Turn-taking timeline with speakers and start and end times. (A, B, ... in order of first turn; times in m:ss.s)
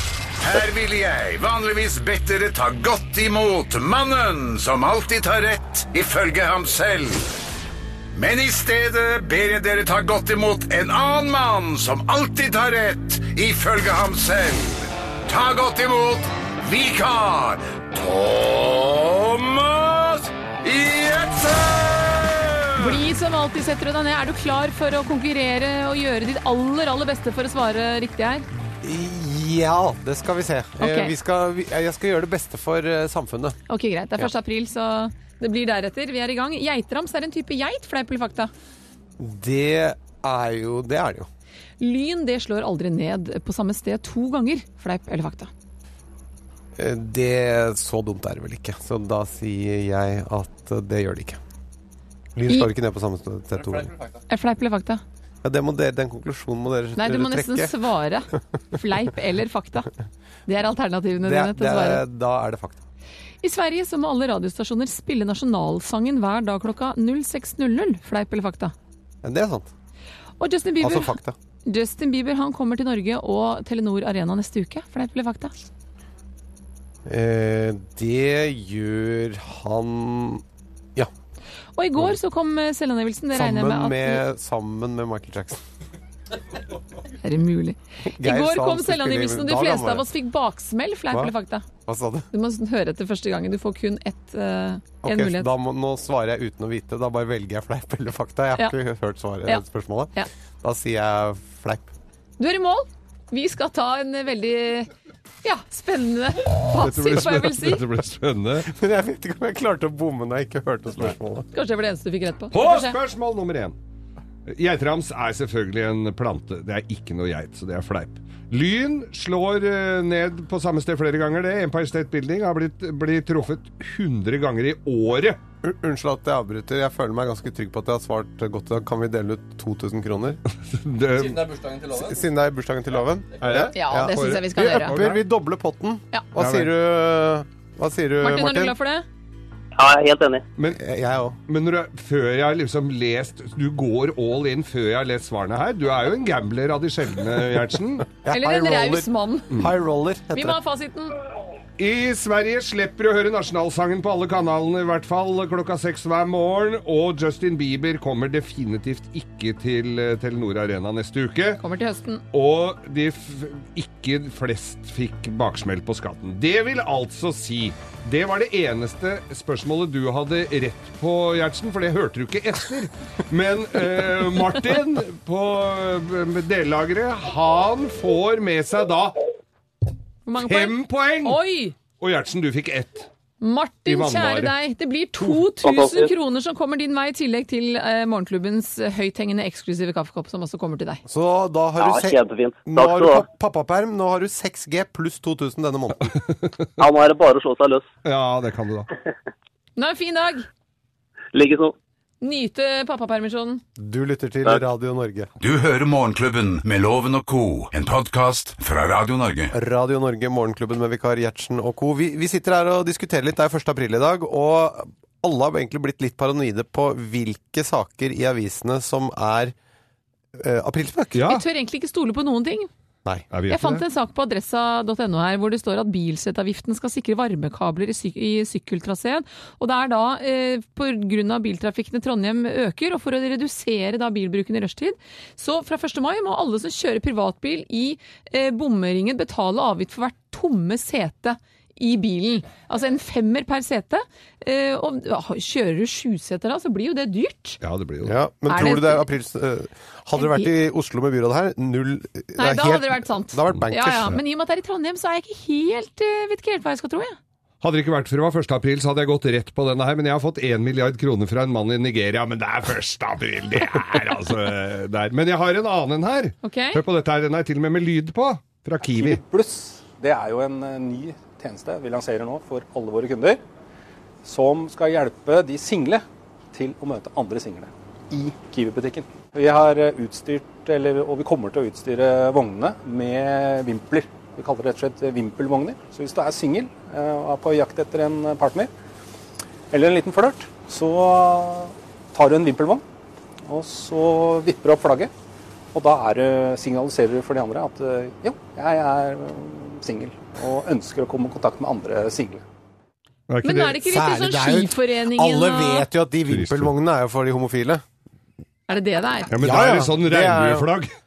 0:00.4-0:07.4 A
0:08.1-0:23.0 A
0:22.8-0:28.5 B
0:28.8-0:33.6 C
0:30.8-0:31.1 B
0:33.7-0:38.5 B
0:39.2-0:41.3 C
0:41.8-0:45.5 B
0:46.8-0:51.4 C
0:52.4-0:54.0 C
0:54.3-0:55.0 B
0:55.4-0:57.8 C
0:57.0-0:59.9 B
1:00.5-1:02.0 B
1:01.2-1:02.8 C
1:03.4-1:08.7 B
1:09.2-1:09.7 C
1:10.4-1:15.5 B
1:10.8-1:11.4 C
1:17.1-1:20.4 C
1:21.8-1:24.2 B
1:23.3-1:25.6 C
1:27.2-1:31.7 B
1:28.0-1:30.1 C
1:31.9-1:32.3 C
1:32.3-1:35.5 B
1:35.0-1:41.9 C
1:42.4-1:44.9 B
1:45.4-1:47.8 B
1:46.8-1:48.7 D
1:48.7-1:51.5 C
1:51.5-1:53.0 B
1:52.5-1:53.8 D
1:54.5-2:05.4 D
2:05.6-2:10.4 C
2:10.5-2:11.7 D
2:11.8-2:18.8 C
2:13.4-2:15.2 D
2:13.7-2:15.0 B
2:16.4-2:16.7 D
2:18.2-2:19.1 B
2:19.8-2:20.4 E
2:20.7-2:21.4 C
2:21.5-2:28.1 D
2:28.2-2:30.6 C
2:28.3-2:29.7 B
2:30.3-2:31.2 B
2:31.8-2:41.6 D
2:41.6-2:42.2 B
2:42.3-2:59.2 D
3:00.3-3:01.8 B
3:00.4-3:03.1 D
3:03.4-3:11.0 B
3:03.9-3:04.5 D
3:05.6-3:06.1 E
3:11.1-3:16.2 C
3:11.8-3:13.3 E
3:16.1-3:16.7 D
3:16.8-3:17.9 E
3:18.0-3:18.9 D
3:19.8-3:20.5 B
3:21.3-3:21.8 E
3:22.2-3:23.6 B
3:23.8-3:25.3 C
3:25.4-3:29.5 A
3:29.5-3:39.6 C
3:40.3-3:41.3 C
3:41.2-3:41.4 D
3:41.2-3:42.7 B
3:43.3-3:43.8 D
3:43.5-4:07.6 B
4:07.6-4:08.2 D
4:08.0-4:14.2 C
4:08.5-4:09.1 B
4:10.2-4:10.5 B
4:12.4-4:17.2 B
4:17.6-4:29.2 D
4:26.4-4:26.8 B
4:29.0-4:33.4 F
4:34.2-4:48.7 F
4:49.7-4:52.8 F
4:53.4-4:55.1 F
4:55.7-5:02.4 F
5:03.3-5:03.8 D
5:03.4-5:05.9 B
5:03.8-5:07.8 C
5:06.3-5:06.7 D
5:08.7-5:09.3 B
5:09.3-5:10.9 D
5:09.4-5:10.7 C